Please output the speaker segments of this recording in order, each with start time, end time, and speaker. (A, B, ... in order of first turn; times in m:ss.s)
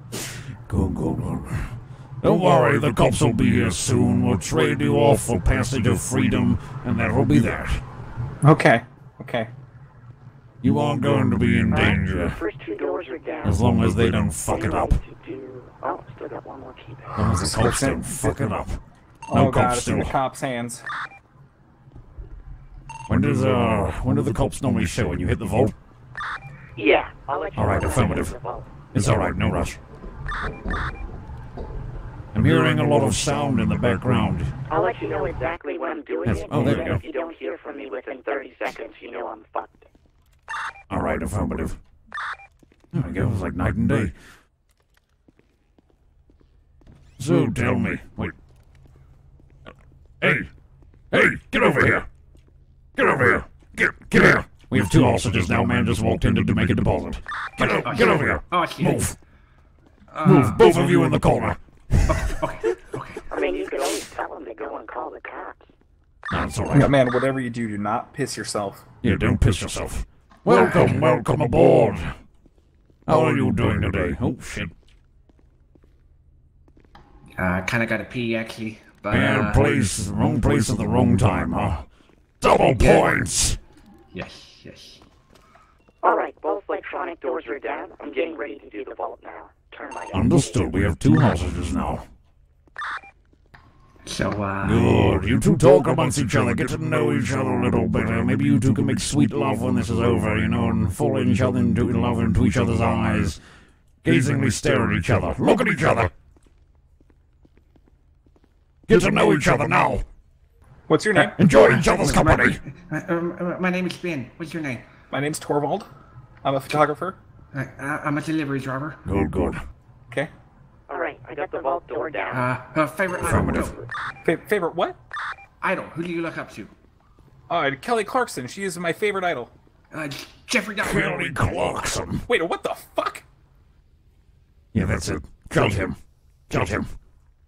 0:00.7-0:07.8 A
0:08.4-0:09.5 B
0:10.6-0:12.4 A
0:11.7-0:13.7 C
0:13.4-0:15.0 A
0:14.3-0:17.2 C
0:17.2-0:18.1 B
0:17.2-0:18.8 A
0:19.3-0:20.8 B
0:19.3-0:20.2 A
0:23.1-0:25.8 A
0:26.8-0:28.7 C
0:27.6-0:28.4 A
0:28.9-0:29.8 A
0:32.3-0:34.5 A
0:34.7-0:39.9 C
0:36.2-0:37.0 A
0:40.9-0:41.8 A
0:42.9-0:44.1 A
0:47.2-0:48.3 A
0:50.2-0:50.5 A
0:51.1-0:52.1 A
0:53.0-0:59.2 A
0:57.6-0:59.1 D
1:00.1-1:00.9 D
1:00.2-1:02.3 A
1:02.1-1:03.2 D
1:03.3-1:05.6 C
1:06.3-1:06.9 A
1:06.7-1:08.8 B
1:09.0-1:12.1 A
1:10.5-1:11.0 D
1:13.1-1:14.7 A
1:17.4-1:19.6 D
1:19.1-1:21.9 A
1:22.4-1:23.6 A
1:22.8-1:23.2 D
1:24.1-1:25.0 D
1:26.0-1:30.6 C
1:30.1-1:32.1 A
1:34.0-1:35.0 D
1:34.6-1:43.4 A
1:44.0-1:46.1 A
1:48.9-1:50.0 A
1:50.9-1:51.4 B
1:51.2-1:54.9 D
1:51.4-1:52.6 A
1:55.1-1:55.9 B
1:56.4-1:57.2 B
1:57.5-1:59.0 D
1:59.0-1:59.6 A
2:00.9-2:02.5 C
2:02.3-2:03.8 D
2:03.2-2:03.7 A
2:04.2-2:05.0 B
2:05.6-2:06.7 D
2:07.5-2:09.5 B
2:09.9-2:11.6 D
2:10.8-2:12.3 A
2:12.3-2:13.2 B
2:14.7-2:16.0 A
2:16.5-2:16.9 A